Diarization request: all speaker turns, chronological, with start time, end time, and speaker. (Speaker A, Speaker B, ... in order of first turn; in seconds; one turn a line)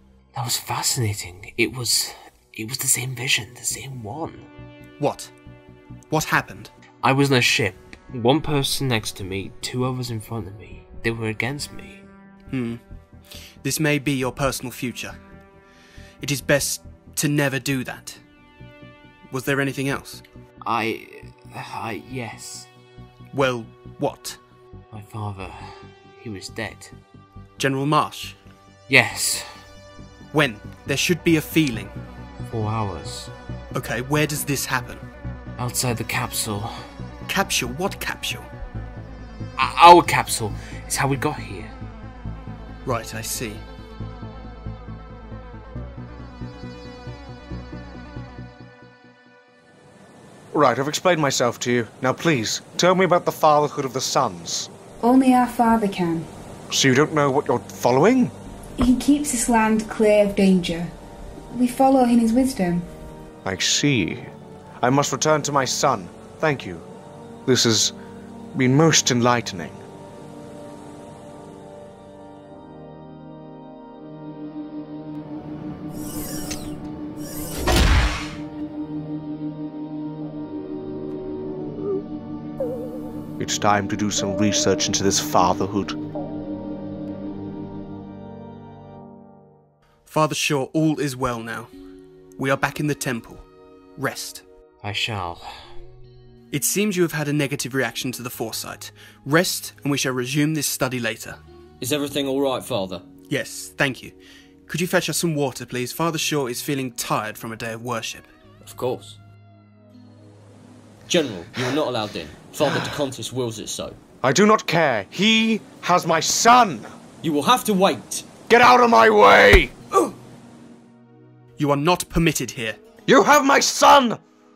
Speaker A: 0.3-4.5
Speaker B: 5.0-5.3
Speaker B: 6.1-6.7
Speaker A: 7.0-12.0
Speaker B: 12.5-12.8
Speaker B: 13.6-15.2
Speaker B: 16.2-18.2
Speaker B: 19.3-20.2
Speaker A: 20.6-22.7
Speaker B: 23.3-24.4
Speaker A: 24.9-26.9
Speaker B: 27.6-28.4
Speaker A: 28.9-29.6
Speaker B: 30.3-31.9
Speaker A: 32.4-33.3
Speaker B: 33.7-35.0
Speaker A: 35.6-36.7
Speaker B: 37.3-38.5
Speaker A: 39.6-41.7
Speaker B: 42.8-43.6
Speaker C: 50.5-54.7
Speaker D: 55.0-56.3
Speaker C: 56.7-58.3
Speaker D: 58.8-60.9
Speaker D: 61.5-62.9
Speaker C: 63.4-66.9
Speaker C: 67.5-67.9
Speaker C: 68.5-69.8
Speaker C: 83.4-86.0
Speaker B: 90.1-91.7
Speaker B: 92.4-93.4
Speaker B: 94.0-94.4
Speaker A: 94.8-95.5
Speaker B: 96.5-101.4
Speaker E: 101.8-103.0
Speaker B: 103.3-104.1
Speaker B: 104.7-108.3
Speaker E: 108.6-109.2
Speaker E: 111.1-114.0
Speaker C: 114.2-116.9
Speaker E: 117.2-118.3
Speaker C: 118.5-120.0
Speaker B: 121.6-122.8
Speaker C: 123.1-124.2